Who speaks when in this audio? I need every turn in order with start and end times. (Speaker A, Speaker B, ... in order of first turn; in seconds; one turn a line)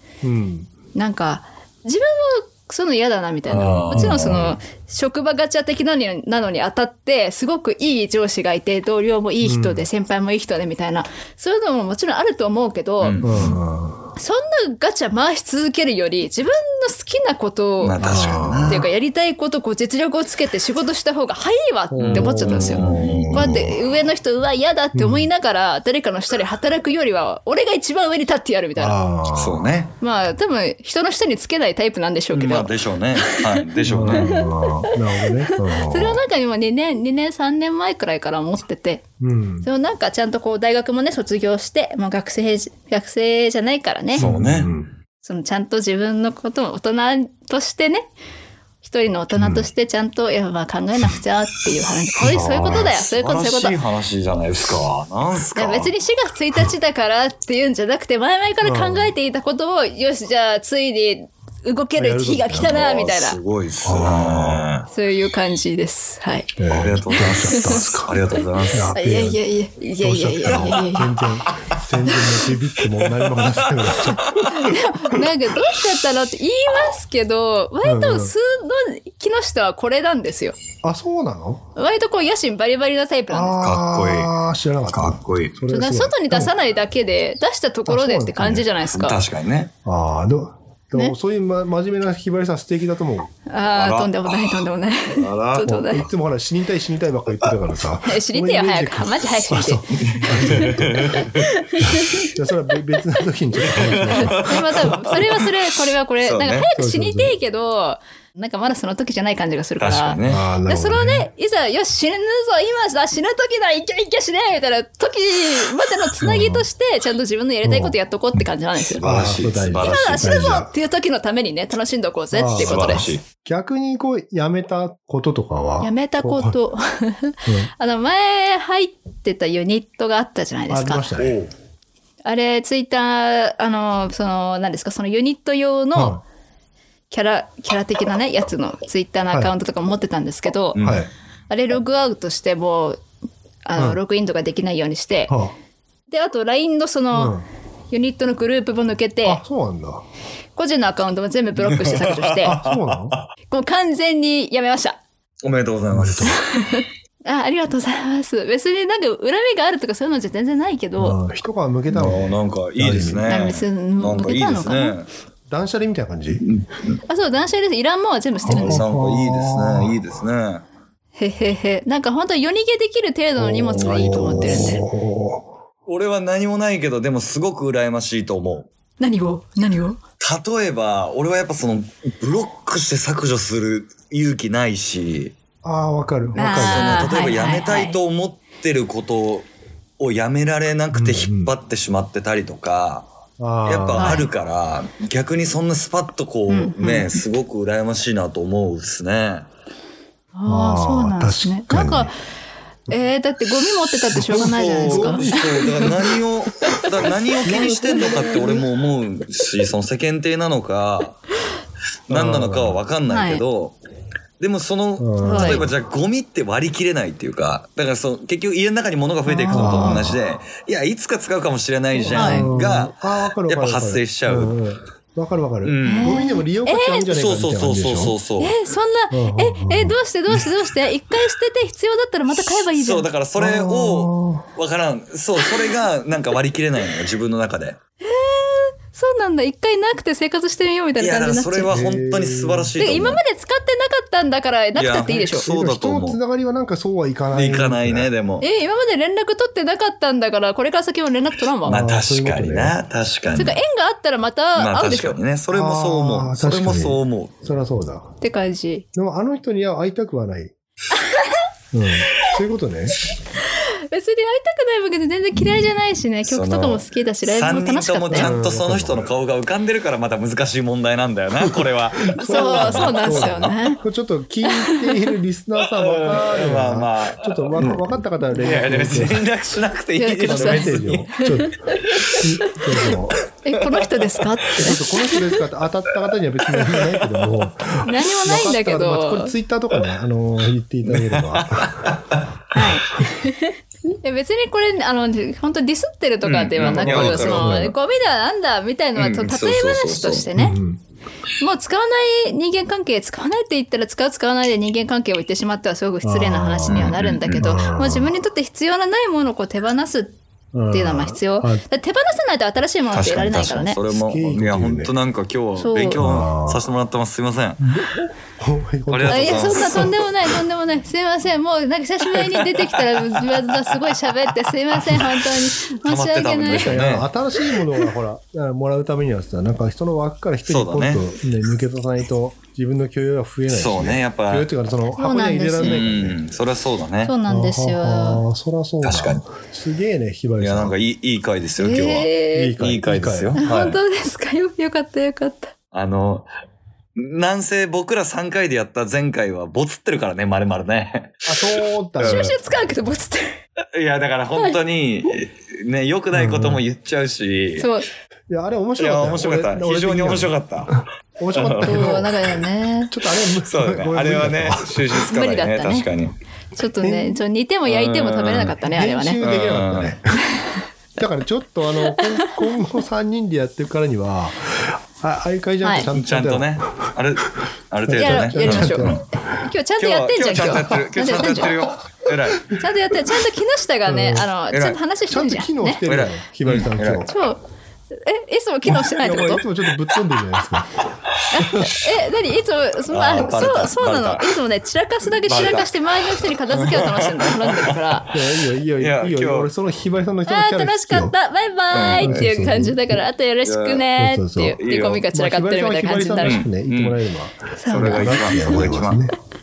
Speaker A: 0.2-0.7
Speaker B: 0.9-13.2
Speaker C: 3.5-4.5
Speaker A: 3.5-4.6
Speaker A: 9.4-9.9
Speaker C: 13.0-13.6
Speaker A: 13.2-14.1
Speaker B: 14.2-18.1
Speaker C: 17.8-18.9
Speaker A: 18.0-18.9
Speaker B: 18.6-29.0
Speaker A: 21.9-23.8
Speaker C: 22.0-23.6
Speaker A: 24.9-25.3
Speaker A: 28.8-29.7
Speaker C: 29.3-29.9
Speaker B: 30.0-39.0
Speaker C: 32.3-34.4
Speaker A: 33.8-36.2
Speaker A: 39.2-39.7
Speaker B: 39.6-44.3
Speaker A: 44.2-44.9
Speaker C: 44.2-44.7
Speaker B: 45.2-48.1
Speaker B: 48.8-53.8
Speaker A: 49.4-49.7
Speaker A: 52.2-52.9
Speaker C: 52.4-55.9
Speaker B: 55.5-63.4
Speaker A: 58.6-59.1
Speaker A: 62.0-62.7
Speaker C: 62.6-64.9
Speaker A: 63.8-64.7
Speaker B: 64.9-66.5
Speaker A: 66.6-68.2
Speaker C: 66.7-68.9
Speaker B: 67.1-67.9
Speaker A: 68.7-69.4
Speaker B: 68.9-71.2
Speaker A: 70.0-75.2
Speaker C: 70.5-70.8
Speaker C: 71.5-71.8
Speaker C: 73.0-74.5
Speaker B: 74.5-80.6
Speaker A: 77.8-78.3
Speaker A: 80.8-81.7
Speaker B: 81.8-83.6
Speaker A: 83.3-86.5
Speaker C: 83.6-84.3
Speaker C: 84.9-85.5
Speaker B: 85.7-89.2
Speaker A: 87.9-88.7
Speaker C: 88.9-89.7
Speaker A: 89.8-93.3
Speaker B: 93.5-96.0
Speaker C: 93.8-95.7
Speaker A: 95.6-101.3
Speaker B: 98.0-102.3
Speaker C: 100.0-101.5
Speaker A: 101.8-104.9
Speaker C: 103.6-105.5
Speaker B: 103.7-119.0
Speaker C: 106.2-106.7
Speaker A: 106.8-107.4
Speaker C: 109.8-110.4
Speaker A: 110.2-111.3
Speaker A: 116.2-116.7
Speaker A: 117.6-118.0
Speaker C: 119.0-120.4
Speaker A: 119.0-120.7
Speaker B: 119.8-123.1
Speaker A: 122.3-126.6
Speaker C: 122.6-123.2
Speaker B: 125.8-131.1
Speaker A: 127.5-127.7
Speaker A: 130.7-131.4
Speaker C: 131.2-131.5
Speaker B: 132.2-136.2
Speaker A: 135.9-136.2
Speaker B: 137.1-140.8
Speaker C: 140.8-141.0
Speaker A: 140.8-141.1
Speaker B: 141.5-143.0
Speaker B: 143.7-145.4
Speaker A: 145.3-145.5
Speaker B: 146.1-147.4
Speaker A: 147.1-147.5
Speaker B: 147.9-149.4
Speaker A: 149.2-150.0
Speaker B: 150.6-152.6
Speaker C: 151.6-153.3
Speaker A: 152.4-153.2
Speaker B: 153.5-155.0
Speaker C: 155.4-156.4
Speaker A: 155.9-156.4
Speaker B: 156.2-161.2
Speaker A: 161.0-163.3
Speaker C: 161.9-165.1
Speaker B: 163.3-164.9
Speaker A: 165.5-166.4
Speaker C: 166.4-167.0
Speaker B: 167.1-168.8
Speaker A: 168.5-170.0
Speaker C: 168.5-170.7
Speaker B: 171.2-174.8
Speaker A: 173.4-175.5
Speaker C: 173.8-174.7
Speaker C: 175.9-178.7
Speaker B: 179.0-180.0
Speaker C: 180.2-185.4
Speaker A: 185.6-187.1
Speaker C: 186.3-189.5
Speaker B: 186.4-188.0
Speaker C: 190.0-193.1
Speaker A: 190.9-191.5
Speaker A: 193.4-194.2
Speaker C: 193.7-199.5
Speaker B: 194.0-194.3
Speaker B: 196.5-197.2
Speaker B: 200.3-202.1
Speaker A: 200.5-202.1
Speaker B: 202.9-206.0
Speaker A: 204.1-205.9
Speaker C: 204.1-211.2
Speaker A: 207.4-208.7
Speaker B: 208.1-208.4
Speaker C: 212.1-213.8
Speaker A: 212.1-212.8
Speaker B: 213.1-213.4
Speaker C: 214.4-224.6
Speaker A: 215.0-215.7
Speaker B: 215.2-215.7
Speaker B: 219.3-220.1
Speaker A: 219.5-220.2
Speaker A: 222.0-228.2
Speaker B: 222.1-222.5
Speaker C: 225.6-226.2
Speaker B: 225.8-227.1
Speaker C: 227.1-228.6
Speaker B: 228.4-233.1
Speaker A: 229.1-230.4
Speaker C: 232.4-237.8
Speaker A: 233.4-234.5
Speaker B: 238.0-241.8
Speaker C: 241.0-243.2
Speaker A: 241.7-242.7
Speaker B: 242.8-245.5
Speaker C: 244.8-246.2
Speaker A: 245.4-248.1
Speaker C: 247.3-248.5
Speaker B: 248.4-251.8
Speaker C: 251.7-253.6
Speaker A: 251.7-252.8
Speaker B: 253.3-255.2
Speaker C: 254.6-257.4
Speaker A: 255.5-258.1
Speaker B: 258.2-258.9
Speaker A: 258.9-260.5
Speaker B: 261.0-261.2
Speaker A: 261.7-263.0
Speaker B: 263.4-268.3
Speaker C: 266.2-273.5
Speaker A: 268.1-269.1
Speaker A: 271.4-279.2
Speaker B: 272.2-273.8
Speaker B: 274.4-275.1
Speaker C: 275.8-281.3
Speaker B: 280.0-282.9
Speaker A: 280.3-281.6
Speaker C: 281.9-282.2
Speaker A: 282.2-283.2
Speaker B: 283.4-285.4
Speaker C: 283.6-284.2
Speaker A: 284.6-291.9
Speaker C: 286.5-287.4
Speaker B: 287.8-289.3
Speaker C: 290.9-292.2
Speaker B: 292.5-300.6
Speaker C: 296.2-297.6
Speaker A: 296.6-297.8
Speaker C: 299.0-300.3
Speaker A: 300.4-300.8
Speaker B: 301.4-310.2
Speaker A: 306.0-308.1
Speaker C: 306.7-307.5
Speaker A: 310.5-311.6
Speaker B: 310.7-313.8
Speaker C: 312.9-317.7
Speaker A: 313.9-314.9
Speaker B: 315.6-316.0
Speaker A: 316.0-316.6
Speaker A: 317.6-320.0
Speaker C: 318.9-320.0
Speaker B: 319.1-326.8
Speaker C: 322.1-327.1
Speaker A: 326.5-336.2
Speaker C: 330.5-331.1
Speaker C: 333.5-334.5
Speaker B: 334.9-335.8
Speaker C: 335.6-337.1
Speaker B: 337.0-338.2
Speaker A: 337.3-340.8
Speaker C: 338.8-339.3
Speaker C: 340.4-343.8
Speaker B: 341.6-342.6
Speaker A: 342.3-343.4
Speaker B: 343.4-345.5
Speaker C: 345.7-346.3
Speaker C: 347.0-352.4
Speaker A: 351.3-352.4
Speaker B: 352.0-353.4
Speaker C: 353.7-357.7
Speaker A: 356.1-356.6
Speaker B: 357.6-357.9
Speaker A: 358.3-365.0
Speaker C: 358.8-362.1
Speaker B: 361.6-362.9
Speaker C: 363.4-366.2
Speaker B: 365.1-365.9
Speaker B: 366.6-369.2
Speaker A: 366.8-367.2
Speaker C: 367.7-368.6
Speaker A: 368.6-370.2
Speaker C: 369.2-370.0
Speaker A: 371.0-376.6
Speaker B: 371.9-372.4
Speaker B: 375.6-375.9
Speaker C: 375.9-379.1
Speaker A: 377.9-379.0
Speaker B: 378.0-381.6
Speaker C: 379.8-382.6
Speaker B: 382.6-385.8
Speaker A: 383.9-384.3
Speaker C: 384.5-384.8
Speaker A: 385.1-387.1
Speaker C: 385.9-387.1
Speaker B: 387.1-387.4
Speaker B: 387.9-389.4
Speaker A: 389.0-390.7
Speaker B: 391.3-398.1
Speaker A: 391.4-391.8
Speaker C: 392.9-394.3
Speaker C: 395.3-395.8
Speaker C: 396.5-397.8
Speaker A: 398.1-401.1
Speaker C: 398.8-399.5
Speaker B: 400.3-406.4
Speaker C: 401.7-402.3
Speaker A: 402.0-403.0
Speaker C: 403.4-403.9
Speaker A: 404.0-404.6
Speaker C: 404.6-405.1
Speaker A: 405.1-409.2
Speaker C: 406.2-407.0
Speaker B: 407.6-408.7
Speaker C: 407.7-409.1